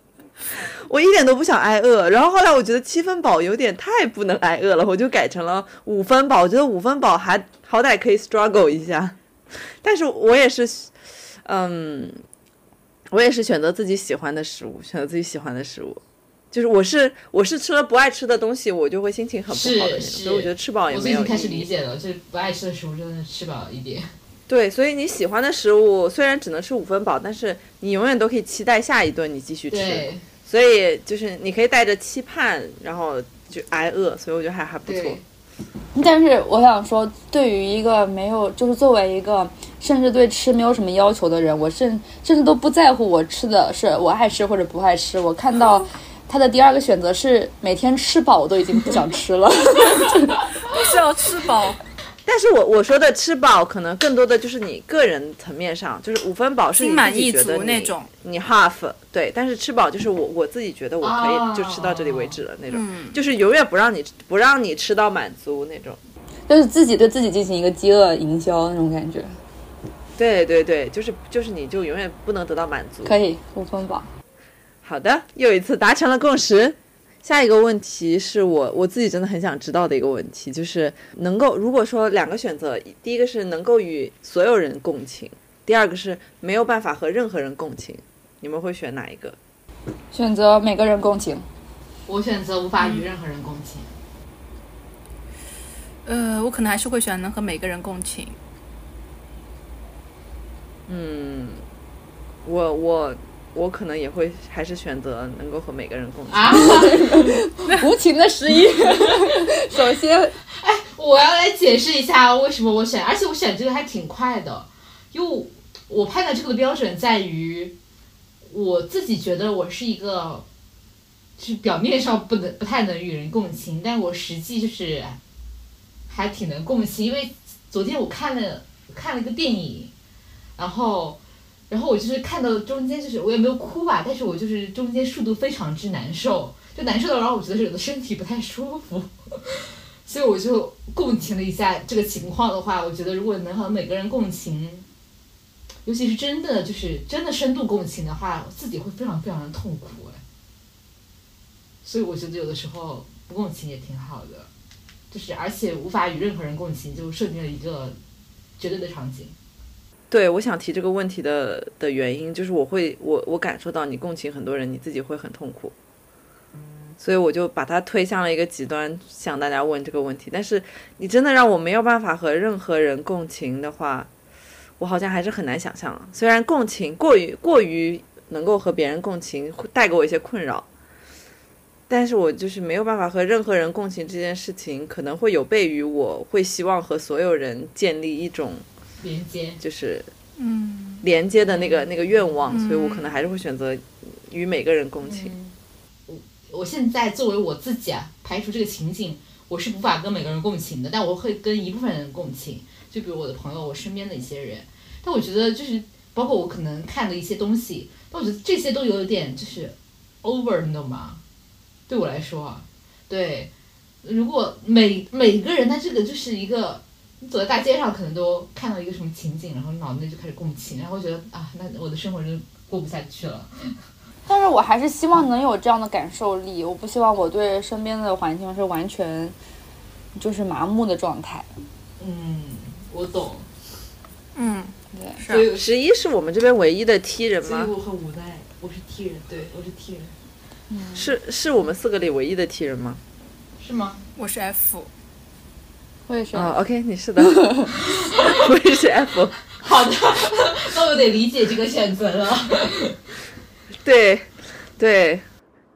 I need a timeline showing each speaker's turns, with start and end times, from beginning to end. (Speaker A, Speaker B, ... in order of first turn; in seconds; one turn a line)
Speaker A: 0.6-12.2
Speaker A: 13.1-16.0
Speaker A: 16.5-21.7
Speaker B: 19.5-24.1
Speaker A: 24.5-35.2
Speaker B: 29.7-30.2
Speaker B: 34.9-35.2
Speaker C: 35.9-50.4
Speaker D: 50.6-51.8
Speaker A: 52.3-66.0
Speaker D: 56.8-58.1
Speaker B: 61.0-62.4
Speaker D: 62.7-63.2
Speaker C: 66.5-69.4
Speaker A: 70.2-73.2
Speaker C: 73.0-74.1
Speaker A: 74.8-89.4
Speaker C: 90.1-91.5
Speaker B: 92.1-93.9
Speaker D: 92.8-93.1
Speaker D: 96.1-98.4
Speaker A: 100.9-101.6
Speaker A: 102.5-106.9
Speaker B: 106.3-107.4
Speaker C: 106.6-110.4
Speaker B: 110.6-117.8
Speaker B: 118.5-120.5
Speaker B: 121.4-125.2
Speaker B: 126.1-129.9
Speaker B: 130.6-144.9
Speaker B: 145.8-150.2
Speaker B: 151.8-154.5
Speaker B: 155.1-158.0
Speaker B: 158.6-159.3
Speaker A: 160.1-165.7
Speaker A: 167.0-174.1
Speaker A: 174.8-180.7
Speaker A: 181.9-188.7
Speaker B: 189.0-189.6
Speaker A: 189.6-190.1
Speaker D: 190.4-191.0
Speaker A: 191.0-195.3
Speaker B: 191.4-192.4
Speaker D: 192.5-193.2
Speaker B: 195.0-195.6
Speaker B: 196.1-211.2
Speaker B: 211.9-213.5
Speaker B: 214.0-223.8
Speaker C: 224.3-229.3
Speaker C: 230.2-231.5
Speaker B: 232.0-233.5
Speaker D: 234.4-235.5
Speaker C: 234.9-235.2
Speaker B: 235.3-235.7
Speaker A: 235.5-237.7
Speaker B: 237.4-240.1
Speaker C: 240.7-241.1
Speaker A: 240.9-243.0
Speaker B: 243.6-244.0
Speaker D: 244.2-244.9
Speaker C: 246.1-246.6
Speaker A: 246.3-249.4
Speaker C: 247.2-247.7
Speaker B: 247.9-248.3
Speaker B: 249.6-253.0
Speaker A: 253.8-255.2